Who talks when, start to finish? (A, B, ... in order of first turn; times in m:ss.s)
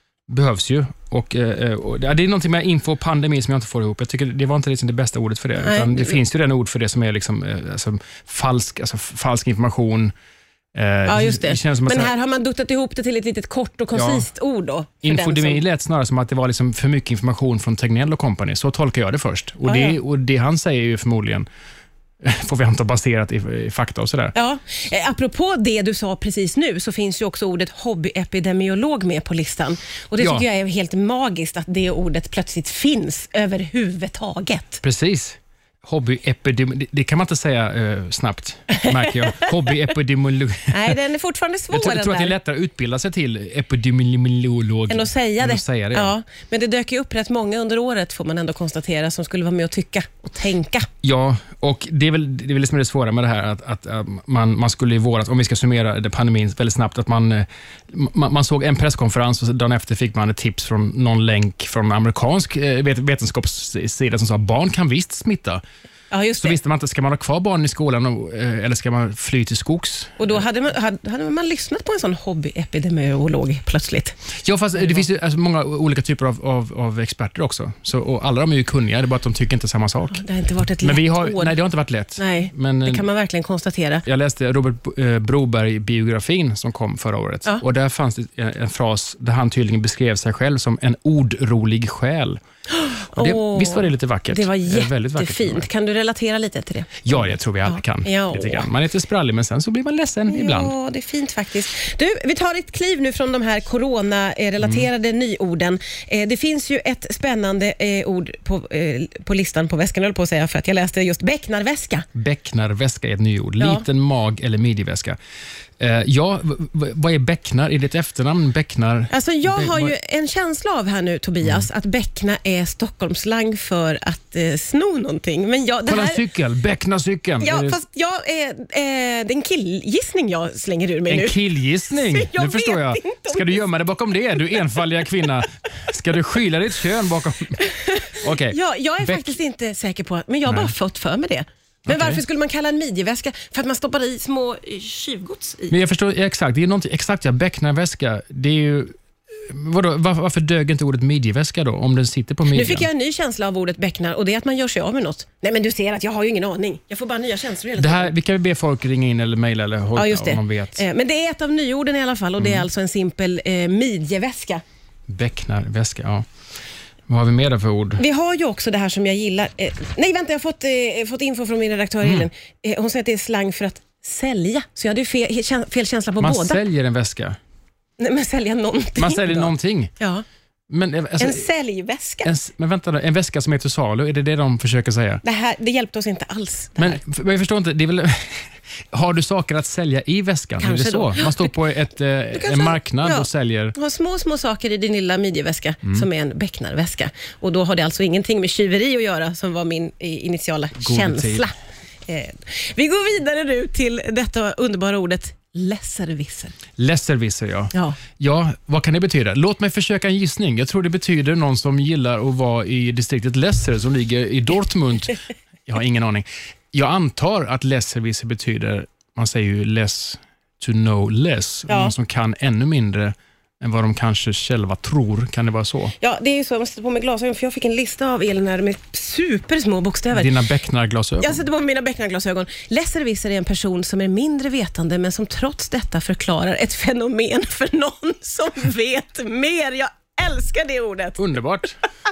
0:00.3-0:10.1 A
0:05.6-0:06.2 B
0:10.7-0:12.1 A
0:11.0-0:15.6 B
0:13.9-0:14.2 A
0:15.0-0:21.4 A
0:19.6-0:20.0 B
0:22.2-0:24.3 A
0:24.3-0:34.8 B
0:30.2-0:30.4 A
0:34.8-0:41.0 A
0:40.7-0:42.3 B
0:41.7-0:46.1 A
0:44.9-0:50.9 B
0:51.0-1:05.6 A
1:06.1-1:06.6 B
1:06.4-1:10.4 A
1:10.2-1:14.2 B
1:14.4-1:20.2 A
1:14.8-1:15.0 B
1:20.1-1:21.5 B
1:20.8-1:23.0 A
1:22.2-1:24.0 B
1:24.0-1:32.4 A
1:32.7-1:38.7 B
1:33.2-1:35.7 A
1:37.0-1:40.7 A
1:40.3-1:52.1 B
1:44.6-1:44.9 A
1:52.1-1:55.2 A
1:53.6-1:53.8 B
1:55.8-1:59.9 A
1:59.1-2:06.2 B
2:05.9-2:07.8 A
2:07.4-2:11.4 B
2:11.1-2:19.4 A
2:11.9-2:13.6 B
2:17.6-2:25.7 B
2:20.5-2:20.7 A
2:21.8-2:22.2 A
2:25.7-2:28.9 A
2:29.5-2:32.9 A
2:32.5-2:38.1 B
2:37.8-2:40.8 A
2:39.9-2:44.6 B
2:42.4-2:42.6 A
2:45.1-2:46.2 A
2:47.1-2:48.0 A
2:48.0-2:56.6 B
2:52.0-2:52.3 A
2:56.2-2:57.4 A
2:58.0-3:00.2 B
2:59.0-2:59.9 A
3:00.7-3:01.5 A
3:01.2-3:02.3 B
3:02.2-3:05.2 A
3:05.2-3:07.0 B
3:06.8-3:13.7 A
3:10.6-3:11.5 B
3:12.3-3:21.5 B
3:20.8-3:21.5 A
3:22.1-3:26.6 B
3:26.8-3:45.9 A
3:27.7-3:28.0 B
3:41.7-3:41.9 B
3:46.0-3:50.3 B
3:50.1-3:51.4 A
3:51.2-4:01.2 B
4:01.2-4:01.8 A